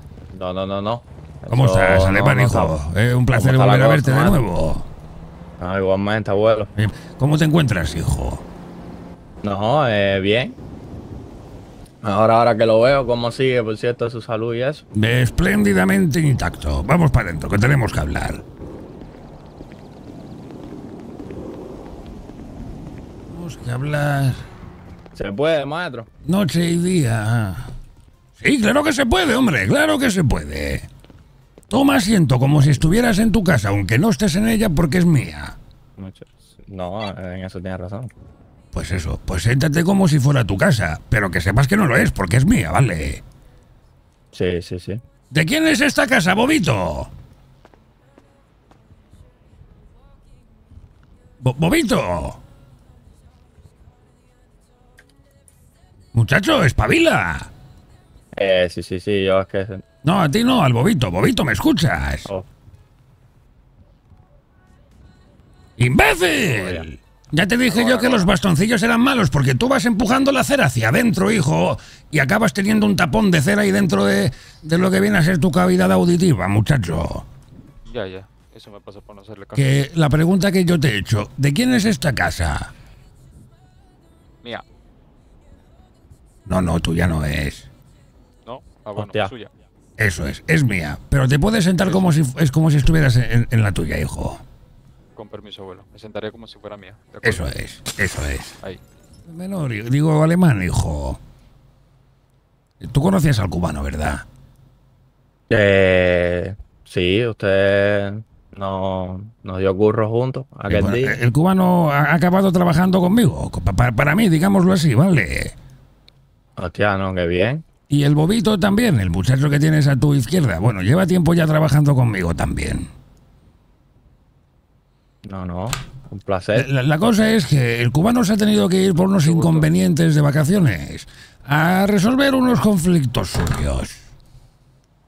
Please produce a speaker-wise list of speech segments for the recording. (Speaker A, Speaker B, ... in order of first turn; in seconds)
Speaker A: 0.3-2.7, 3.3-4.4, 5.6-6.7, 9.4-10.6, 12.0-14.8, 25.1-26.1, 36.0-38.1, 44.3-45.0, 58.3-59.8, 66.4-66.9, 89.0-89.3, 105.5-111.2, 116.6-117.6, 125.2-126.7
Speaker B: 1.5-4.9, 6.8-8.4, 14.9-18.4, 23.3-24.4, 26.2-27.7, 28.4-30.9, 31.7-35.5, 38.7-43.2, 45.3-47.1, 51.4-52.4, 56.1-57.5, 60.0-62.3, 65.8-77.2, 79.5-82.7, 86.5-87.7, 90.0-94.4, 97.2-98.5, 99.3-101.2, 102.8-104.2, 110.7-115.5, 117.9-122.9, 126.5-134.0
Speaker C: 67.7-68.3, 77.8-79.8, 88.4-89.5, 91.8-92.1, 95.2-97.5, 129.2-129.7